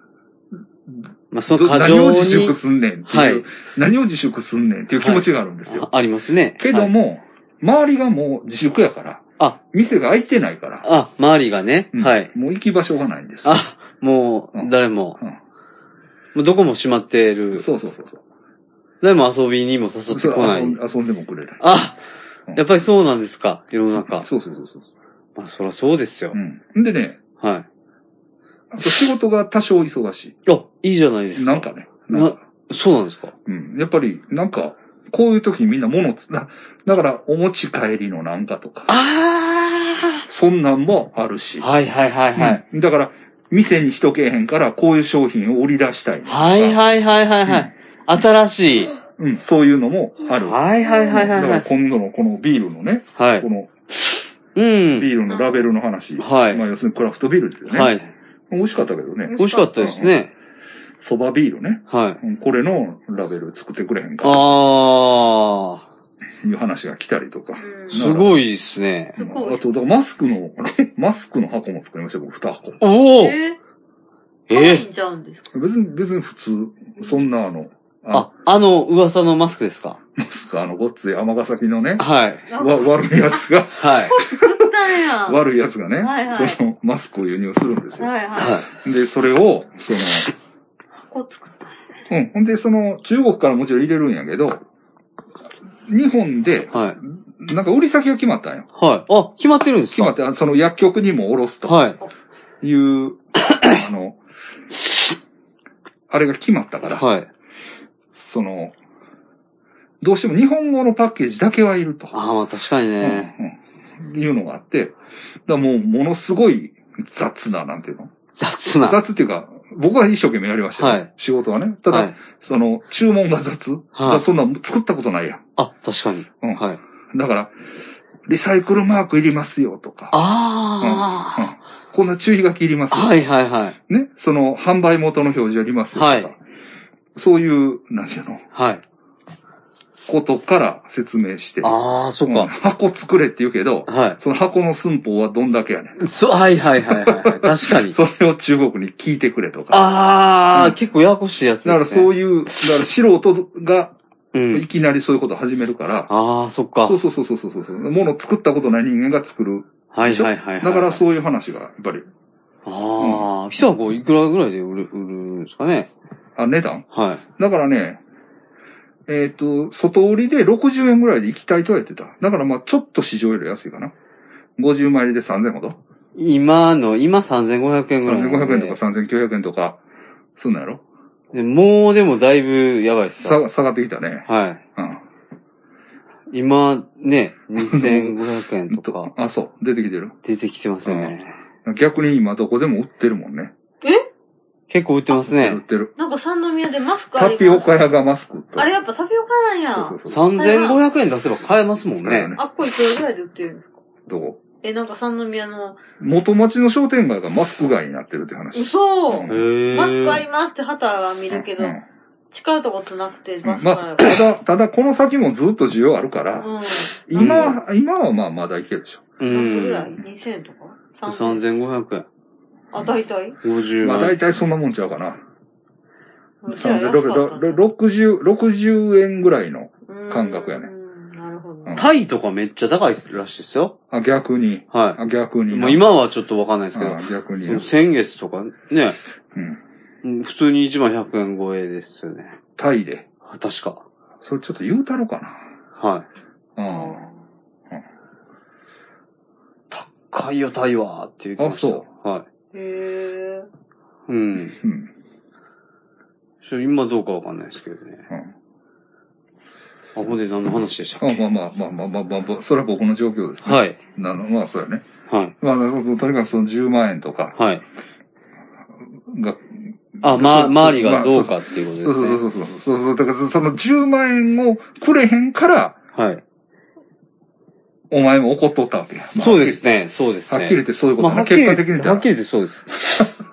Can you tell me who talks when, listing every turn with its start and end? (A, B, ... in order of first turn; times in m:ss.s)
0:01.3-0:02.6 A
0:01.5-0:05.9 B
0:03.1-0:03.4 A
0:05.0-0:06.9 A
0:06.6-0:10.9 B
0:10.8-0:12.3 A
0:11.9-0:13.6 B
0:13.4-0:15.2 A
0:14.5-0:15.4 B
0:16.3-0:17.6 A
0:17.5-0:18.2 B
0:19.0-0:20.8 A
0:20.1-0:21.6 B
0:21.6-0:22.0 A
0:22.6-0:24.3 A
0:24.0-0:24.8 B
0:25.4-0:26.4 A
0:26.3-0:27.2 B
0:27.4-0:27.6 A
0:28.7-0:30.4 B
0:30.4-0:33.3 A
0:31.3-0:32.4 B
0:33.4-0:38.9 B
0:38.9-0:40.2 A
0:40.3-0:41.7 B
0:41.6-0:42.6 A
0:42.4-0:46.8 B
0:46.3-0:48.9 A
0:49.2-0:53.7 B
0:50.4-0:51.6 A
0:53.2-0:53.4 A
0:54.5-0:55.1 A
0:55.0-0:57.9 B
0:56.2-0:56.6 A
0:57.7-0:58.1 A
0:58.5-1:00.1 B
0:59.3-0:59.8 C
0:59.4-1:00.3 A
1:01.0-1:04.5 B
1:01.9-1:02.2 A
1:04.2-1:05.8 A
1:06.4-1:08.4 B
1:07.6-1:08.0 C
1:07.9-1:09.2 A
1:09.2-1:12.8 B
1:09.2-1:09.6 C
1:12.8-1:13.4 A
1:13.2-1:13.6 C
1:14.5-1:14.8 A
1:14.5-1:15.4 C
1:15.5-1:18.3 B
1:18.1-1:20.0 A
1:20.2-1:24.7 B
1:22.0-1:22.5 A
1:22.5-1:23.4 C
1:23.8-1:24.1 A
1:24.1-1:25.4 C
1:25.2-1:28.1 B
1:26.0-1:26.6 C
1:28.0-1:28.6 C
1:28.4-1:28.6 A
1:28.7-1:30.3 B
1:31.1-1:32.0 C
1:32.1-1:34.6 B
1:35.9-1:38.7 B
1:36.7-1:37.0 A
1:38.7-1:40.1 A
1:39.9-1:41.8 B
1:41.6-1:42.0 A
1:42.6-1:44.2 B
1:46.1-1:47.1 B
1:46.9-1:47.3 A
1:48.2-1:48.7 B
1:50.0-1:52.1 B
1:52.1-1:53.3 A
1:53.0-1:54.9 B
1:55.5-1:58.1 B
1:58.3-1:59.0 A
1:58.8-2:05.4 B
2:00.8-2:01.1 A
2:01.9-2:02.2 A
2:04.0-2:04.2 A
2:05.6-2:06.8 A
2:06.4-2:07.5 B
2:08.3-2:10.2 B
2:10.1-2:11.5 A
2:10.8-2:13.2 B
2:12.9-2:13.8 A
2:13.9-2:16.4 B
2:15.9-2:16.3 A
2:17.1-2:18.4 B
2:18.5-2:18.8 A
2:20.1-2:26.0 B
2:21.6-2:22.5 A
2:23.9-2:24.2 A
2:26.0-2:28.0 A
2:26.8-2:29.9 B
2:29.7-2:32.6 A
2:31.6-2:33.9 B
2:34.3-2:34.6 A
2:34.5-2:36.1 B
2:36.1-2:37.0 A
2:36.8-2:42.1 B
2:39.9-2:41.0 A
2:42.6-2:45.9 A
2:43.0-2:43.3 B
2:46.4-2:46.8 B
2:46.9-2:47.2 A
2:47.4-2:48.0 B
2:49.1-2:53.9 B
2:54.6-2:55.8 B
2:56.1-2:58.8 A
2:58.0-2:59.8 B
3:00.4-3:00.8 B
3:01.3-3:03.4 A
3:03.2-3:05.0 B
3:04.2-3:04.6 A
3:06.3-3:09.1 A
3:07.6-3:08.2 B
3:08.7-3:10.1 B
3:10.2-3:11.4 A
3:10.8-3:13.5 B
3:14.7-3:15.6 A
3:15.2-3:15.9 B
3:16.0-3:17.7 C
3:17.2-3:18.7 B
3:18.6-3:20.8 C
3:19.7-3:20.3 B
3:20.0-3:22.3 A
3:22.0-3:22.4 B
3:22.4-3:23.7 C
3:24.1-3:24.4 B
3:24.6-3:25.8 C
3:26.0-3:29.4 B
3:28.5-3:31.8 C
3:29.3-3:30.2 A
3:31.3-3:31.8 B
3:32.3-3:34.2 C
3:33.4-3:39.0 B
3:36.4-3:37.4 C
3:37.1-3:37.6 A
3:39.2-3:40.0 A
3:39.3-3:41.4 C
3:41.0-3:42.0 A
3:42.7-3:43.4 C
3:43.4-3:44.2 A
3:43.8-3:45.2 B
3:46.4-3:47.6 C
3:46.5-3:50.7 B
3:49.9-3:51.7 C
3:51.7-3:53.8 A
3:53.9-3:55.8 B
3:54.7-3:55.0 A
3:55.5-3:59.0 A
3:56.7-3:57.6 B
3:59.3-3:59.6 B
4:00.0-4:02.4 A
4:02.6-4:03.0 B
4:03.2-4:03.8 A
4:04.2-4:05.4 B
4:05.8-4:06.0 A
4:06.6-4:07.1 B
4:06.7-4:07.1 C
4:09.7-4:12.2 A
4:11.4-4:11.8 B
4:12.5-4:13.5 C
4:14.1-4:14.6 A
4:14.6-4:14.9 B
4:16.4-4:18.0 A
4:19.9-4:21.2 A
4:21.0-4:24.8 B
4:23.4-4:23.8 A
4:25.1-4:25.3 A
4:25.4-4:27.4 B
4:27.4-4:27.6 A
4:29.1-4:35.8 B
4:30.0-4:32.2 A
4:35.9-4:36.2 A
4:37.9-4:39.6 B
4:39.2-4:42.8 A
4:40.3-4:42.1 B